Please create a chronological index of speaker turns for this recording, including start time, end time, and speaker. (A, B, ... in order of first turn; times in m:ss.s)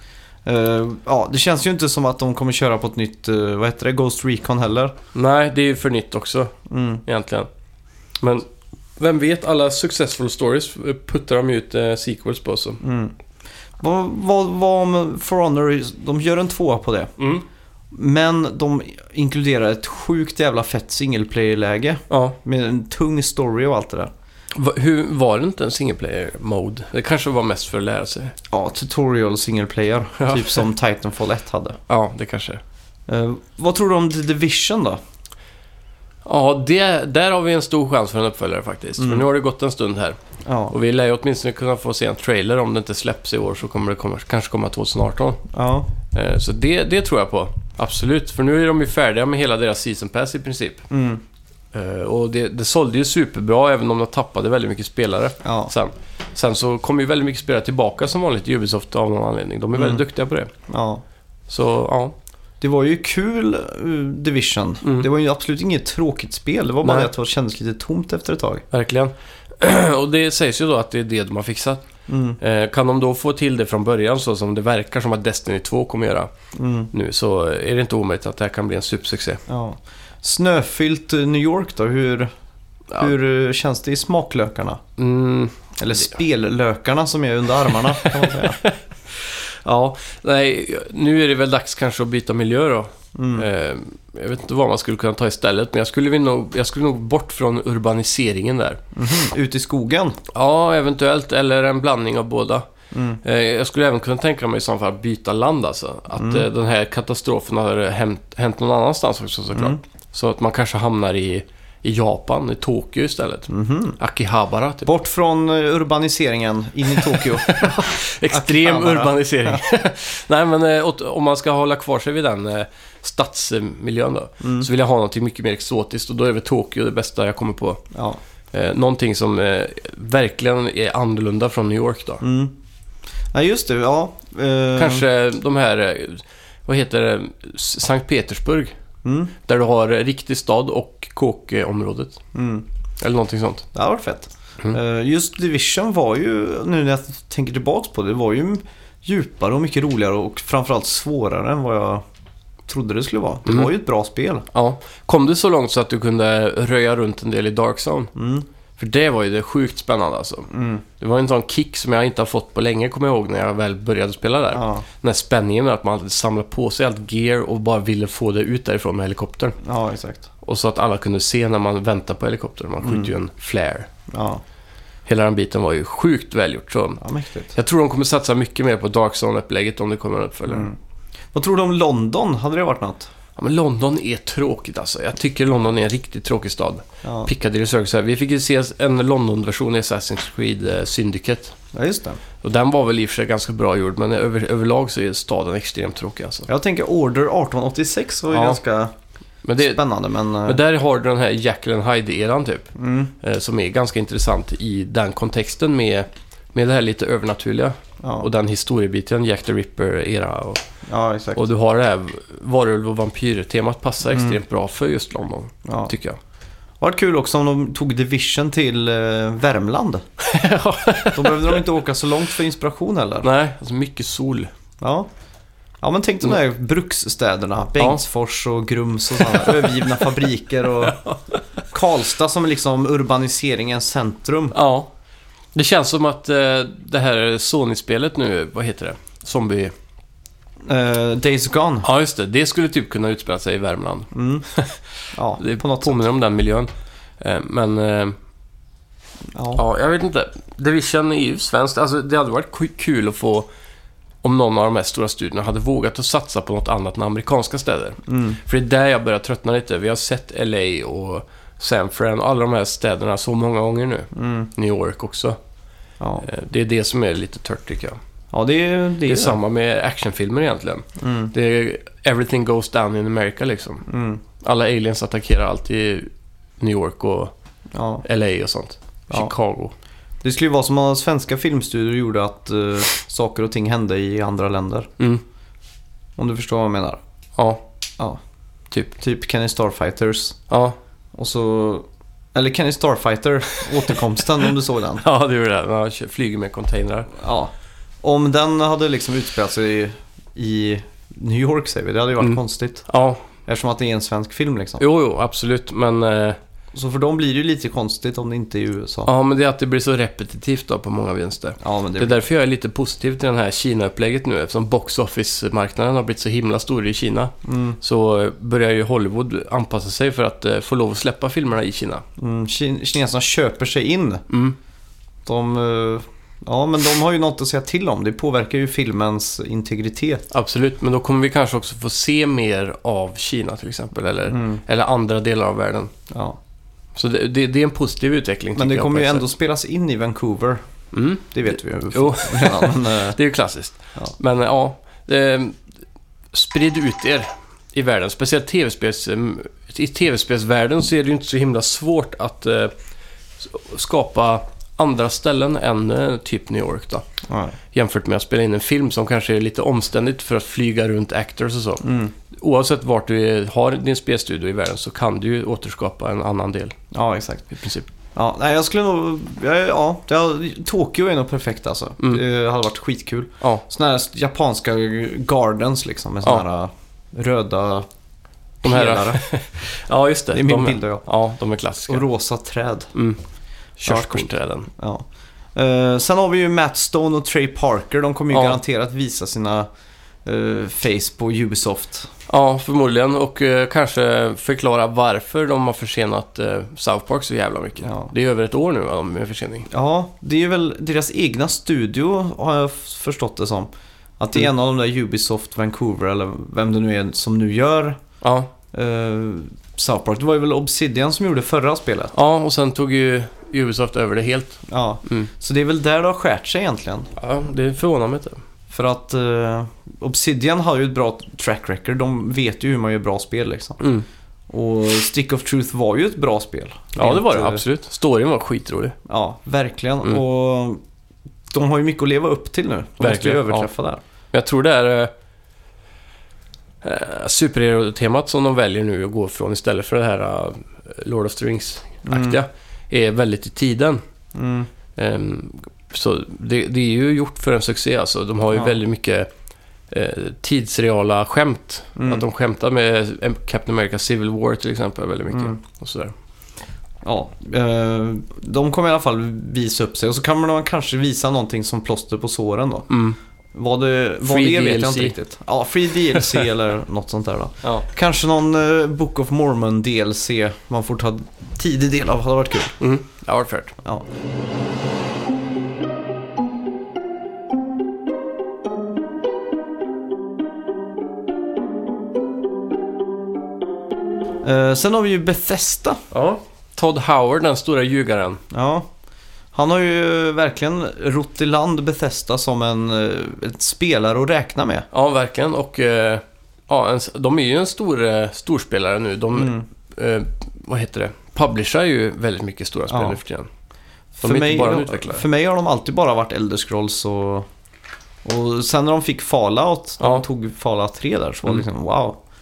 0:00.4-0:04.9 A
0:05.1-0:07.5 B
0:06.7-0:07.0 A
0:09.0-0:12.8 B
0:12.8-0:13.1 A
0:13.8-0:17.1 A
0:17.2-0:17.4 B
0:17.9-0:24.1 A
0:22.1-0:22.4 B
0:24.5-0:28.3 B
0:28.5-0:31.8 A
0:30.2-0:30.6 B
0:31.9-0:32.6 B
0:33.1-0:35.0 A
0:36.2-0:40.2 B
0:39.0-0:39.3 A
0:40.4-0:40.7 A
0:40.7-0:45.4 B
0:45.5-0:45.9 A
0:46.1-0:50.9 B
0:50.9-0:51.2 A
0:51.7-1:00.5 B
0:55.4-0:55.7 A
0:59.7-1:00.0 A
1:00.7-1:01.0 A
1:01.5-1:02.1 B
1:02.6-1:08.6 A
1:04.8-1:05.1 B
1:06.8-1:07.1 B
1:08.7-1:11.8 B
1:12.1-1:12.4 A
1:12.4-1:16.3 B
1:16.5-1:16.9 A
1:16.9-1:19.4 B
1:19.5-1:22.3 A
1:23.0-1:24.8 A
1:25.0-1:25.6 B
1:25.8-1:28.6 A
1:27.7-1:38.8 B
1:33.1-1:33.4 A
1:38.9-1:40.2 A
1:40.3-1:42.7 B
1:42.9-1:43.2 A
1:43.2-1:54.9 B
1:46.2-1:46.4 A
1:49.5-1:49.8 A
1:53.5-1:54.0 A
1:54.8-1:57.7 A
1:56.9-2:07.8 B
1:58.3-1:59.6 A
2:04.4-2:04.7 A
2:07.9-2:08.2 A
2:08.5-2:12.2 B
2:12.2-2:12.5 A
2:13.3-2:15.0 A
2:14.7-2:18.7 B
2:19.0-2:19.3 A
2:19.4-2:22.2 B
2:22.3-2:22.6 A
2:23.0-2:23.7 B
2:23.7-2:32.0 A
2:32.7-2:34.5 A
2:33.4-2:33.7 B
2:34.5-2:38.1 B
2:38.1-2:38.5 A
2:38.8-2:49.6 B
2:40.5-2:40.8 A
2:44.5-2:44.8 A
2:49.6-2:50.2 A
2:50.4-2:53.9 B
2:52.8-2:53.1 A
2:54.1-2:54.4 A
2:55.0-2:57.0 B
2:57.0-2:57.5 A
2:57.5-3:00.7 B
3:00.5-3:00.8 A
3:01.3-3:03.1 A
3:03.4-3:11.5 B
3:07.0-3:07.3 A
3:11.7-3:12.2 A
3:12.4-3:16.5 B
3:16.5-3:18.9 A
3:18.3-3:18.6 B
3:19.4-3:19.8 B
3:19.6-3:20.6 A
3:20.4-3:30.6 B
3:22.8-3:23.1 A
3:28.0-3:28.3 A
3:30.9-3:31.4 A
3:31.3-3:36.2 B
3:34.1-3:34.4 A
3:35.6-3:35.9 A
3:36.8-3:40.0 A
3:40.2-3:41.6 B
3:41.1-3:43.3 A
3:43.2-3:44.5 B
3:44.8-3:45.1 A
3:45.8-3:51.0 A
3:49.2-3:50.2 B
3:50.8-3:51.6 B
3:51.7-3:54.5 A
3:54.5-3:54.9 B
3:55.5-3:59.7 B
4:00.6-4:01.9 A
4:01.8-4:06.7 B
4:04.1-4:04.4 A
4:05.1-4:06.0 A
4:07.2-4:08.2 B
4:09.3-4:09.6 A
4:09.5-4:13.5 B
4:14.2-4:25.4 B
4:18.1-4:18.4 A
4:24.1-4:24.5 A
4:26.0-4:26.2 A
4:26.2-4:28.0 B
4:28.3-4:29.4 A
4:29.0-4:33.9 B
4:31.0-4:31.3 A
4:33.9-4:34.2 A
4:34.4-4:36.1 B
4:36.6-4:37.3 B
4:37.7-4:38.0 A
4:38.0-4:39.7 B
4:40.2-4:44.9 A
4:46.2-4:47.0 A
4:47.4-4:47.6 B
4:48.9-4:50.4 A
4:50.5-4:50.8 B
4:51.1-4:55.0 A
4:55.0-4:57.1 B
4:57.1-5:02.8 A
5:02.2-5:03.2 B
5:03.4-5:04.8 A
5:04.8-5:06.4 B
5:06.7-5:09.1 A
5:09.0-5:22.0 B
5:11.6-5:12.2 A
5:17.4-5:17.8 A
5:22.2-5:24.2 A
5:24.3-5:24.6 B
5:25.2-5:30.2 A
5:30.3-5:35.9 B
5:34.3-5:34.6 A
5:36.1-5:36.4 A
5:37.0-5:39.3 B
5:38.5-5:40.6 A
5:40.9-5:45.6 B
5:41.3-5:43.2 A
5:46.3-5:52.7 B
5:53.4-5:57.0 B
5:57.3-5:57.5 A
5:57.7-6:06.8 B
6:01.8-6:02.1 A
6:06.9-6:07.5 A
6:07.5-6:07.9 B
6:08.1-6:17.9 A
6:18.6-6:19.2 A
6:18.6-6:22.0 B
6:20.3-6:21.0 A
6:21.9-6:22.9 A
6:22.9-6:23.2 B
6:23.8-6:24.7 B
6:23.9-6:29.7 A
6:28.3-6:28.6 B
6:30.2-6:32.1 A
6:32.3-6:39.7 B
6:37.8-6:38.1 A
6:39.7-6:48.0 A
6:48.2-6:48.5 B
6:48.7-6:52.1 A
6:52.1-6:55.3 B
6:54.7-6:57.1 A
6:57.2-6:58.4 B
6:58.7-7:03.8 A
7:03.8-7:04.0 B
7:04.5-7:07.6 A
7:06.9-7:09.0 B
7:09.1-7:10.8 A
7:11.5-7:14.0 A
7:13.0-7:13.7 B
7:14.3-7:15.1 B
7:16.8-7:24.0 B
7:22.0-7:22.4 A
7:24.3-7:24.7 A
7:25.0-7:29.3 B
7:29.9-7:36.1 B
7:32.0-7:32.2 A
7:37.0-7:42.9 A
7:42.9-7:43.2 B
7:43.5-7:52.8 A
7:44.2-7:45.2 B
7:52.8-7:53.7 B
8:04.4-8:06.0 A
8:06.1-8:08.4 B
8:08.5-8:08.9 A
8:09.5-8:14.9 A
8:14.9-8:23.5 B
8:19.3-8:19.6 A
8:22.9-8:23.2 A
8:24.2-8:27.5 A
8:24.2-8:25.2 B
8:28.2-8:32.2 A